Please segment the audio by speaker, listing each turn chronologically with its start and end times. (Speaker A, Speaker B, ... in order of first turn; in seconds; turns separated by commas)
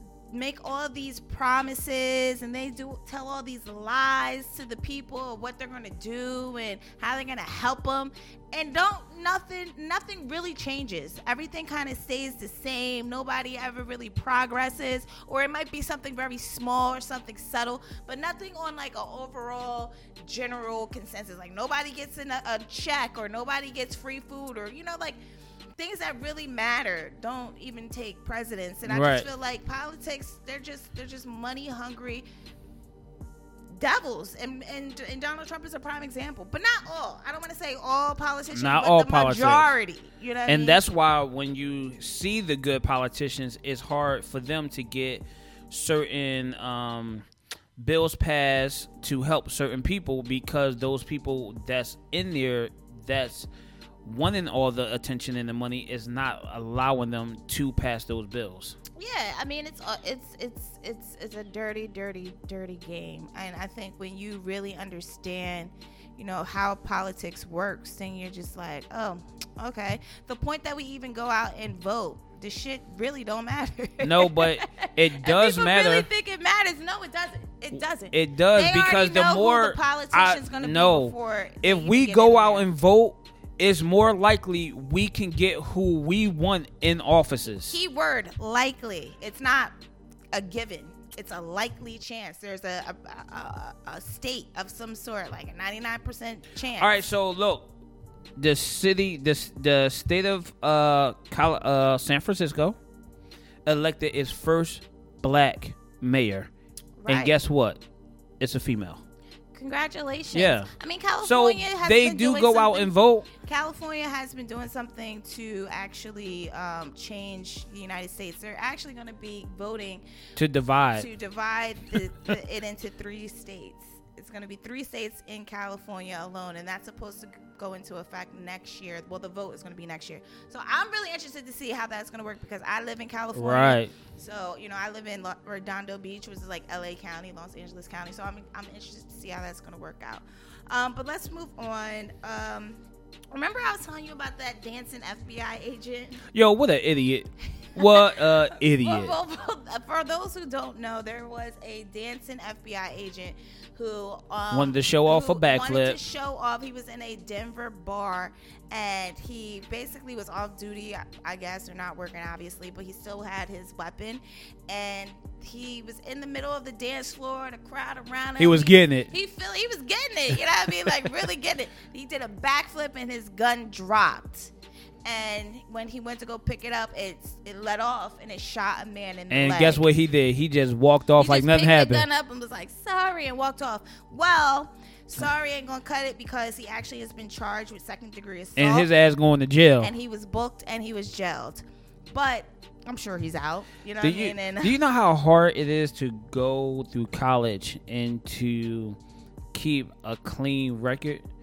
Speaker A: 0.3-25.2, Speaker A: 25.8-32.2, Speaker B: 28.8-29.3, Speaker A: 33.7-40.8, Speaker B: 38.5-39.7, Speaker B: 40.5-47.2, Speaker B: 47.8-53.5, Speaker B: 54.0-58.8, Speaker A: 59.0-82.7, Speaker B: 74.0-76.1, Speaker B: 78.1-87.8, Speaker A: 87.7-89.7, Speaker A: 90.3-97.0, Speaker B: 96.8-97.7, Speaker B: 98.4-102.8, Speaker B: 103.7-106.5, Speaker A: 107.0-107.3, Speaker B: 107.1-107.8, Speaker B: 108.4-109.0, Speaker A: 109.5-120.0, Speaker B: 110.3-110.7, Speaker B: 111.2-113.3, Speaker B: 120.3-121.1, Speaker A: 120.9-142.8, Speaker B: 133.3-133.9, Speaker A: 143.3-146.2, Speaker B: 146.3-149.1, Speaker A: 147.8-174.5, Speaker B: 154.5-156.0, Speaker B: 168.4-169.1, Speaker A: 175.0-179.8, Speaker B: 179.3-182.1, Speaker A: 181.2-188.9, Speaker B: 188.6-189.9, Speaker A: 189.8-194.8, Speaker B: 194.0-199.0, Speaker B: 199.5-201.2